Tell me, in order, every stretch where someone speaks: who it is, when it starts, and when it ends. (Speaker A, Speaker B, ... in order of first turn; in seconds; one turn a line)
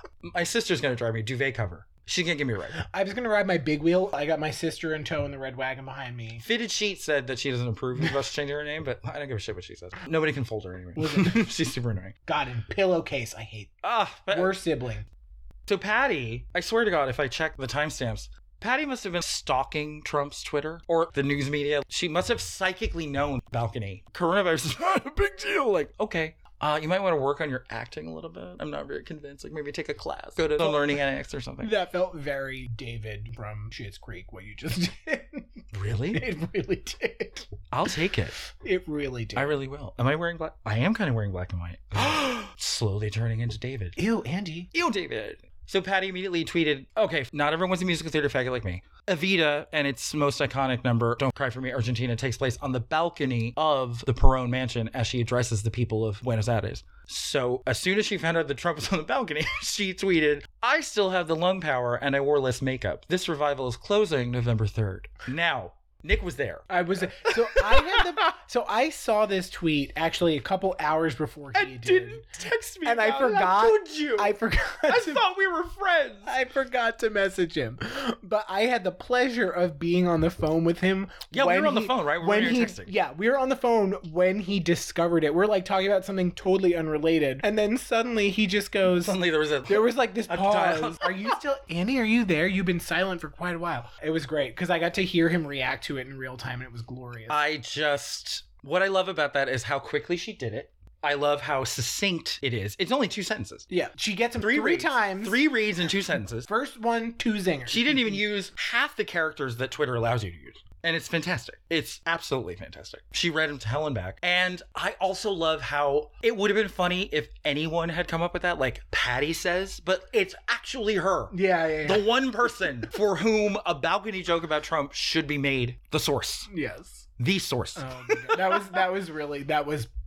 Speaker A: 0.2-2.8
Speaker B: 2.8-6.4
Speaker A: 6.4-12.1
Speaker B: 11.0-11.5
Speaker B: 12.3-13.7
Speaker A: 13.8-14.5
Speaker B: 14.3-15.1
Speaker A: 15.7-31.7
Speaker B: 30.6-31.0
Speaker B: 31.6-37.5
Speaker A: 35.7-36.2
Speaker A: 37.7-38.4
Speaker B: 38.5-39.6
Speaker A: 39.4-44.0
Speaker B: 44.0-44.7
Speaker A: 44.7-68.2
Speaker B: 66.7-72.2
Speaker A: 71.5-74.3
Speaker B: 72.8-75.2
Speaker A: 74.9-76.3
Speaker B: 76.2-97.4
Speaker A: 81.3-82.9
Speaker A: 88.9-91.4
Speaker A: 97.3-103.7
Speaker B: 103.7-105.4
Speaker A: 104.4-106.5
Speaker B: 106.5-108.2
Speaker A: 107.7-126.5
Speaker B: 121.3-122.1
Speaker B: 126.5-127.1
Speaker A: 127.2-128.7
Speaker B: 127.8-129.9